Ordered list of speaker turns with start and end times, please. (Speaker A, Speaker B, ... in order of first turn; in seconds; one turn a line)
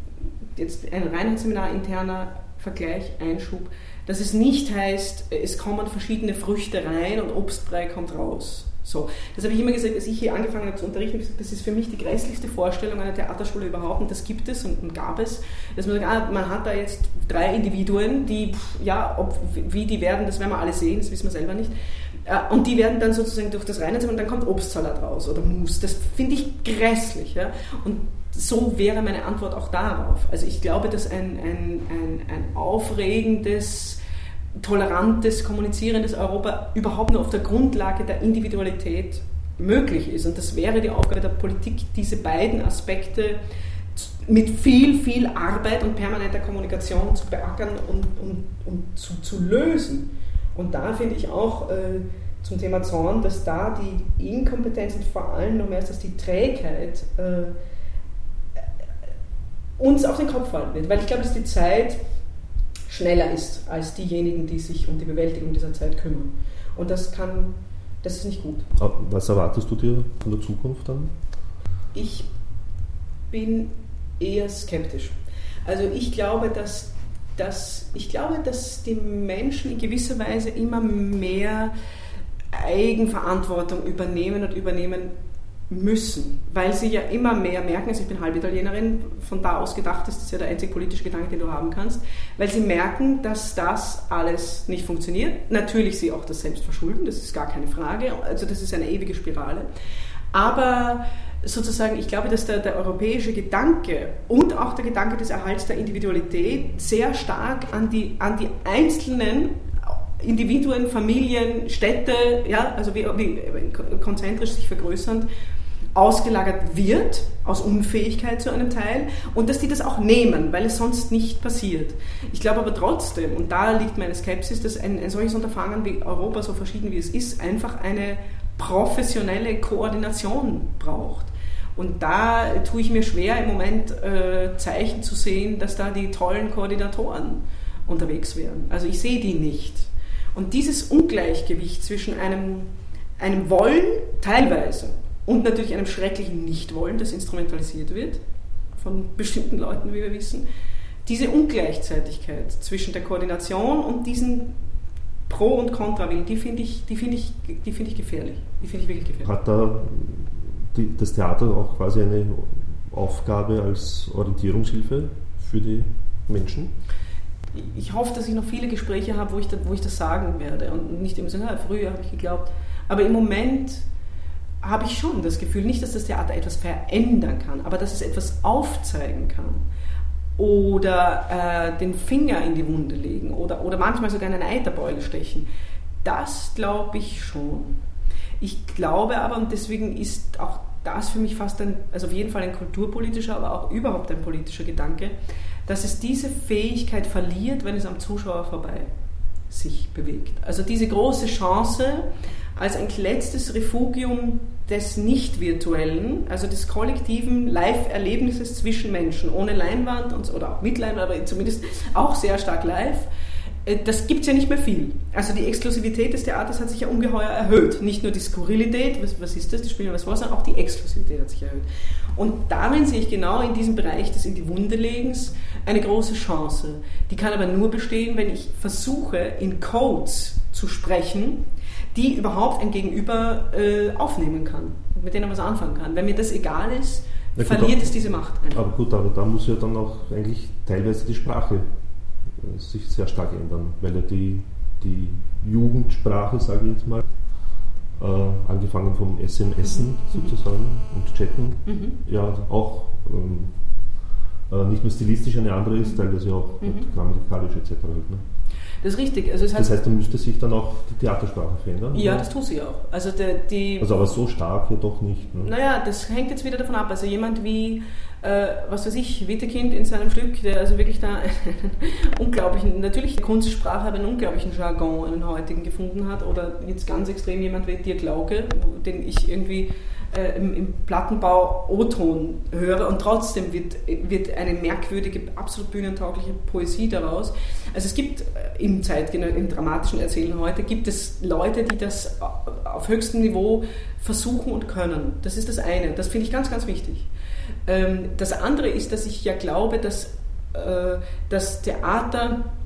Speaker A: 0.6-21.7
Speaker A: 22.2-34.0
Speaker A: 34.6-43.4
Speaker A: 44.0-57.5
Speaker A: 59.8-62.0
Speaker A: 62.9-68.7
Speaker B: 68.8-71.2
Speaker A: 71.9-72.3
Speaker A: 73.3-75.2
Speaker A: 75.7-81.7
Speaker A: 82.5-85.1
Speaker A: 85.7-99.7
Speaker A: 100.3-115.3
Speaker A: 115.9-148.2
Speaker A: 148.8-150.5
Speaker A: 151.1-154.5
Speaker A: 155.3-159.3
Speaker B: 159.2-166.7
Speaker A: 167.5-173.9
Speaker A: 174.6-179.6
Speaker A: 180.4-185.5
Speaker A: 186.0-187.8
Speaker A: 188.4-198.9
Speaker A: 199.5-213.1
Speaker A: 213.7-238.7
Speaker B: 237.4-241.7
Speaker B: 242.3-247.1
Speaker B: 248.0-253.9
Speaker A: 251.7-252.0
Speaker B: 254.5-258.2
Speaker A: 258.8-259.7
Speaker B: 259.5-262.3
Speaker A: 261.9-263.9
Speaker B: 263.8-265.5
Speaker A: 265.4-297.1
Speaker A: 297.7-302.4